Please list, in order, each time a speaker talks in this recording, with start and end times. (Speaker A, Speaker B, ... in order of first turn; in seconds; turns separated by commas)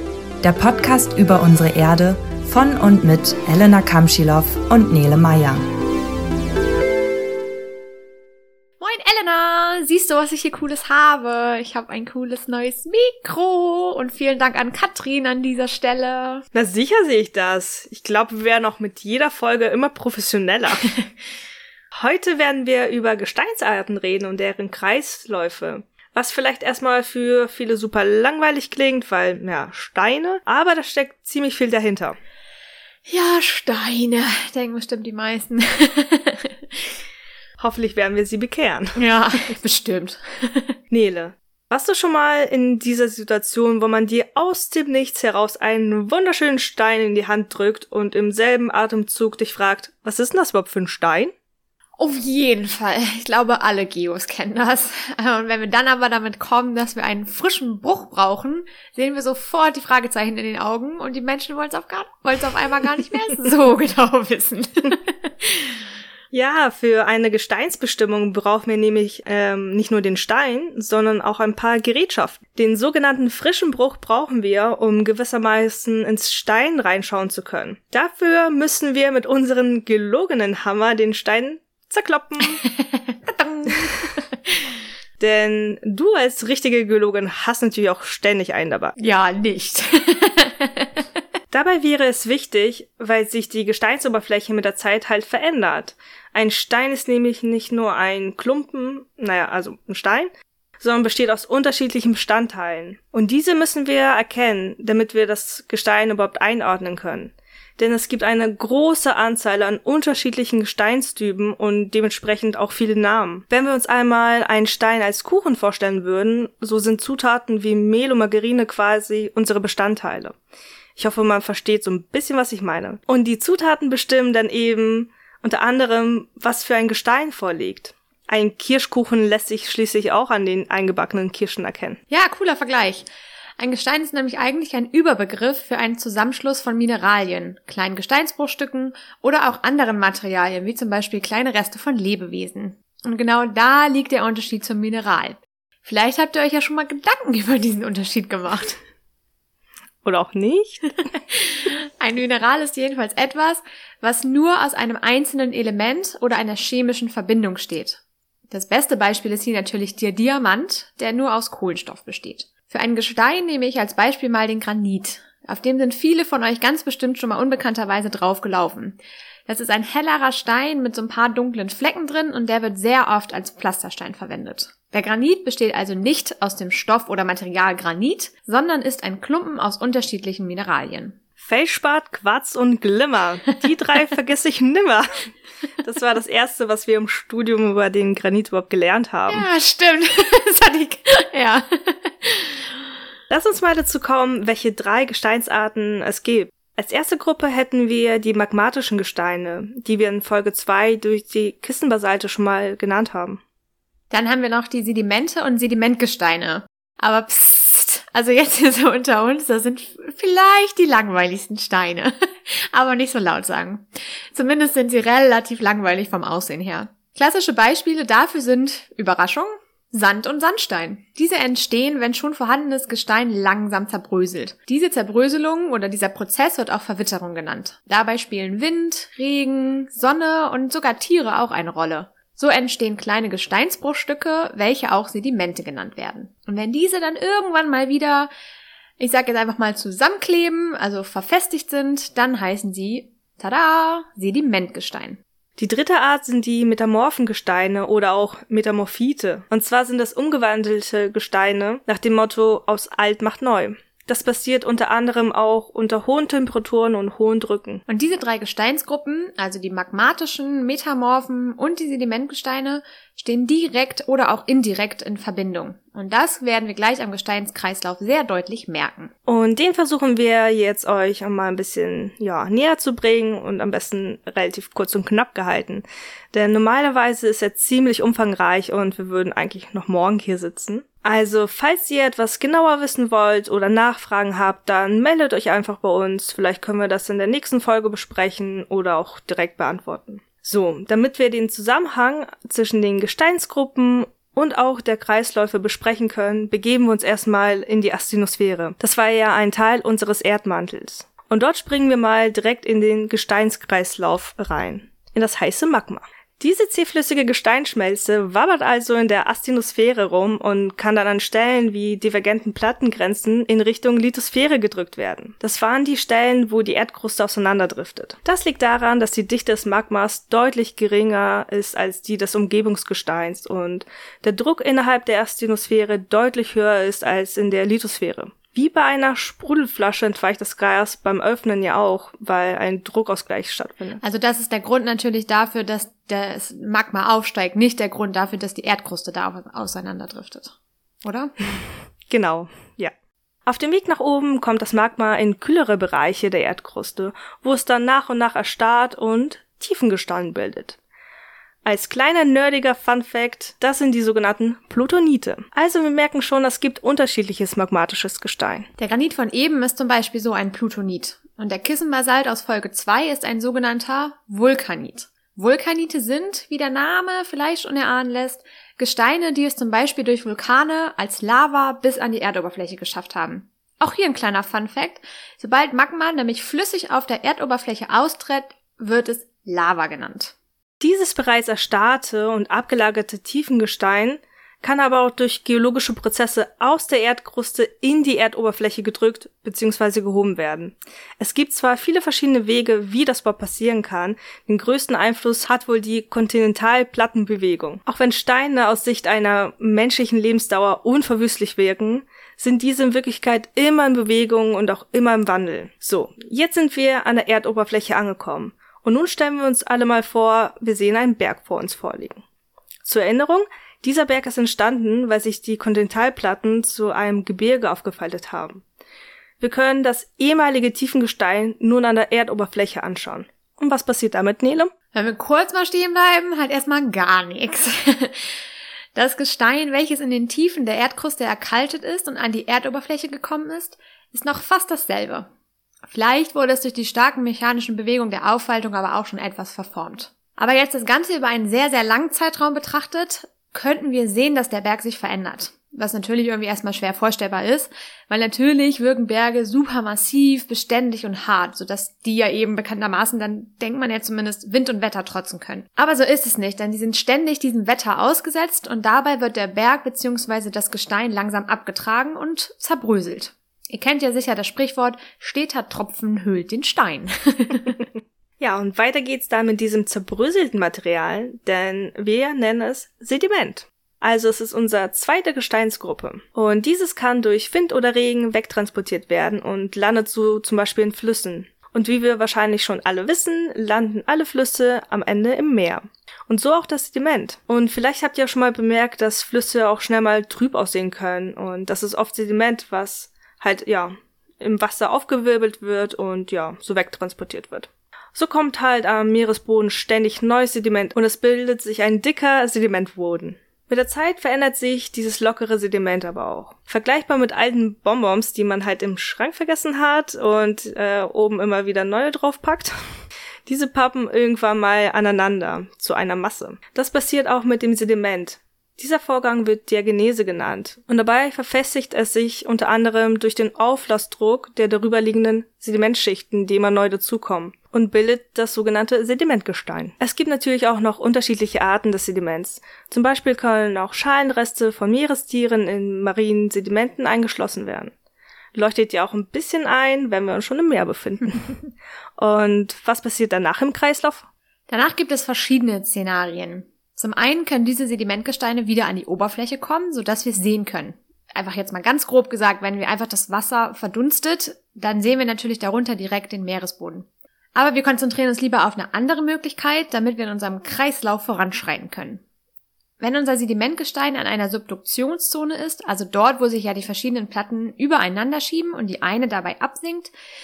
Speaker A: 0.4-5.6, Speaker B: 8.8-16.4, Speaker C: 16.5-20.9, Speaker C: 21.9-32.1, Speaker B: 33.1-36.8, Speaker C: 37.6-39.0, Speaker B: 39.0-40.7, Speaker C: 40.9-51.3, Speaker B: 52.0-65.8, Speaker C: 66.3-82.6, Speaker B: 82.6-84.8, Speaker C: 85.2-88.9, Speaker B: 89.0-91.0, Speaker C: 91.5-100.3, Speaker C: 100.8-120.3, Speaker C: 121.0-132.0, Speaker B: 132.1-148.8, Speaker C: 150.0-150.8, Speaker B: 151.3-181.2, Speaker C: 181.4-185.3, Speaker C: 185.8-189.4, Speaker B: 189.3-192.7, Speaker C: 193.3-203.4, Speaker B: 204.1-238.3, Speaker B: 239.0-245.2, Speaker C: 245.6-257.8, Speaker B: 257.9-269.1, Speaker C: 269.3-334.0, Speaker B: 334.0-341.3, Speaker C: 342.1-342.9, Speaker C: 343.4-350.8, Speaker C: 351.6-358.7, Speaker B: 358.8-380.3, Speaker C: 380.8-412.2, Speaker C: 412.8-418.6, Speaker C: 419.4-424.7, Speaker B: 424.9-428.4, Speaker B: 428.9-435.3, Speaker B: 435.9-467.8, Speaker C: 468.4-512.7, Speaker C: 513.5-537.9, Speaker C: 538.5-541.6, Speaker C: 542.2-544.2, Speaker B: 544.7-562.2, Speaker B: 563.0-570.1